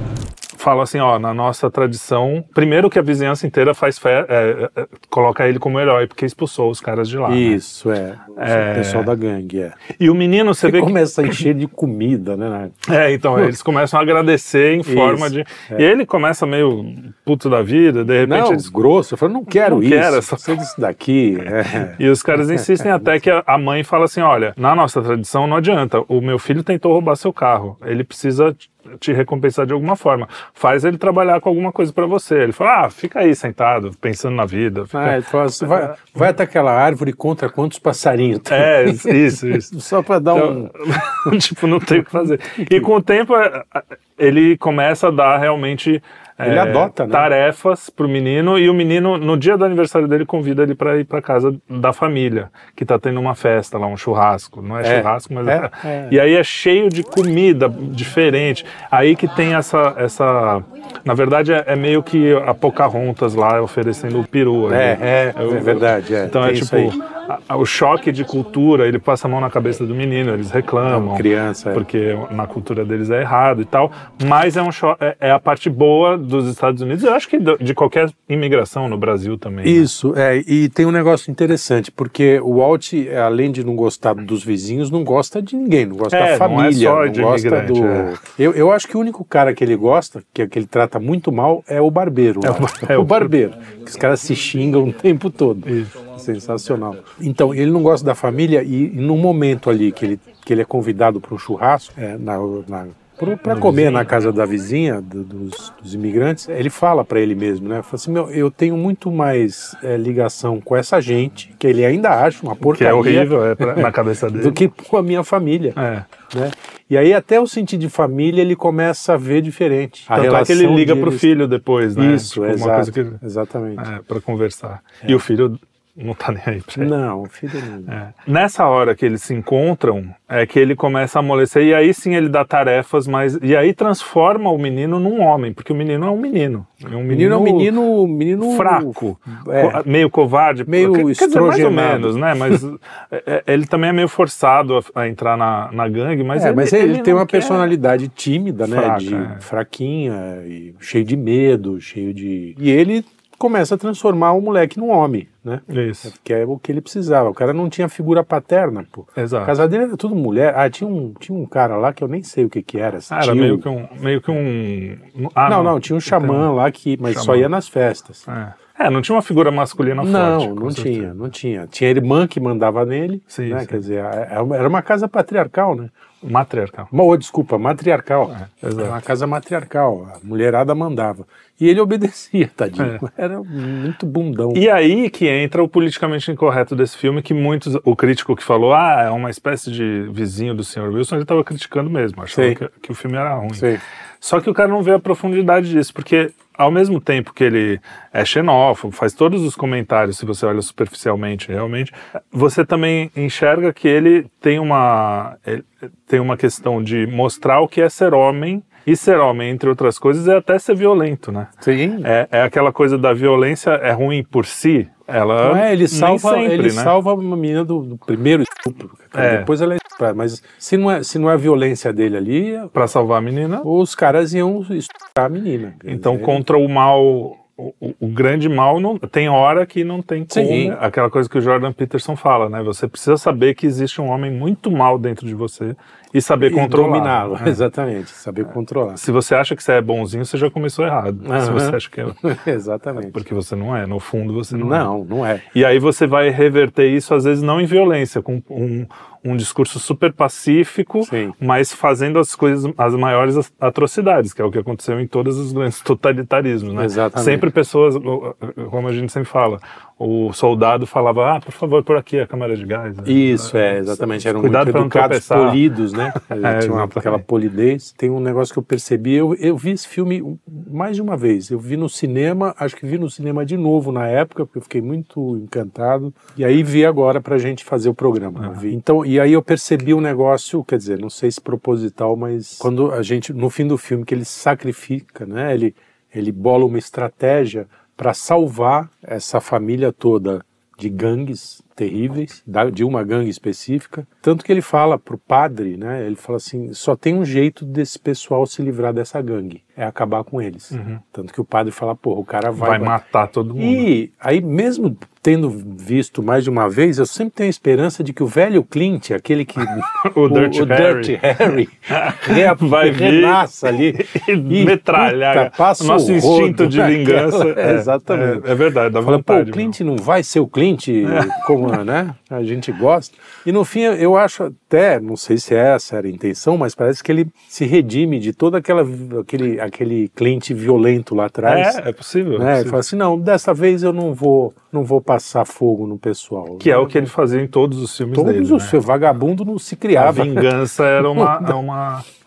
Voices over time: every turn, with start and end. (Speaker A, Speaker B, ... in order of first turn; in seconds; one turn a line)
Speaker A: 0.6-7.6
Speaker B: 7.3-9.8
Speaker A: 8.4-9.1
Speaker A: 10.0-11.4
Speaker B: 10.6-13.5
Speaker A: 12.9-18.7
Speaker B: 14.8-15.8
Speaker B: 18.2-23.1
Speaker A: 19.5-20.6
Speaker A: 21.9-36.1
Speaker B: 34.9-41.3
Speaker A: 38.5-39.7
Speaker A: 40.3-79.9
Speaker B: 42.6-42.9
Speaker B: 46.4-47.3
Speaker B: 54.8-56.2
Speaker B: 64.7-67.0
Speaker B: 70.8-71.8
Speaker B: 79.6-115.8
Speaker A: 86.1-88.2
Speaker A: 92.4-93.3
Speaker A: 95.7-96.0
Speaker A: 103.5-104.2
Speaker A: 112.6-114.6
Speaker A: 115.8-116.1
Speaker B: 116.3-121.3
Speaker A: 120.1-123.2
Speaker B: 122.0-123.9
Speaker A: 123.8-126.9
Speaker B: 126.8-127.9
Speaker A: 127.9-137.7
Speaker B: 137.1-139.8
Speaker A: 138.4-147.7
Speaker B: 140.7-142.6
Speaker B: 146.3-163.7
Speaker A: 148.6-149.4
Speaker A: 155.7-156.1
Speaker A: 159.2-159.6
Speaker A: 163.1-166.5
Speaker B: 165.5-168.2
Speaker A: 167.1-167.5
Speaker A: 168.3-171.2
Speaker B: 170.0-175.9
Speaker A: 173.3-173.8
Speaker A: 176.2-176.9
Speaker B: 176.9-184.6
Speaker A: 178.3-179.0
Speaker A: 184.5-193.7
Speaker B: 192.3-192.6
Speaker B: 193.6-193.8
Speaker A: 194.2-211.5
Speaker B: 211.6-212.1
Speaker A: 212.0-217.0
Speaker B: 215.4-222.7
Speaker A: 219.2-219.5
Speaker A: 222.7-223.7
Speaker B: 223.6-226.4
Speaker A: 225.9-237.6
Speaker B: 230.3-230.8
Speaker B: 236.4-239.0
Speaker A: 239.0-242.3
Speaker B: 241.2-243.2
Speaker A: 243.0-244.9
Speaker B: 244.5-245.4
Speaker A: 245.5-265.6
Speaker B: 251.0-251.3
Speaker B: 256.8-257.5
Speaker B: 263.1-303.0
Speaker A: 266.2-267.2
Speaker A: 300.7-301.0
Speaker A: 302.6-303.9
Speaker B: 303.6-331.8
Speaker A: 310.0-319.8
Speaker A: 321.1-321.8
Speaker A: 331.4-332.8
Speaker B: 332.4-337.1
Speaker A: 336.6-338.8
Speaker B: 338.1-340.5
Speaker A: 339.9-342.1
Speaker B: 341.1-341.6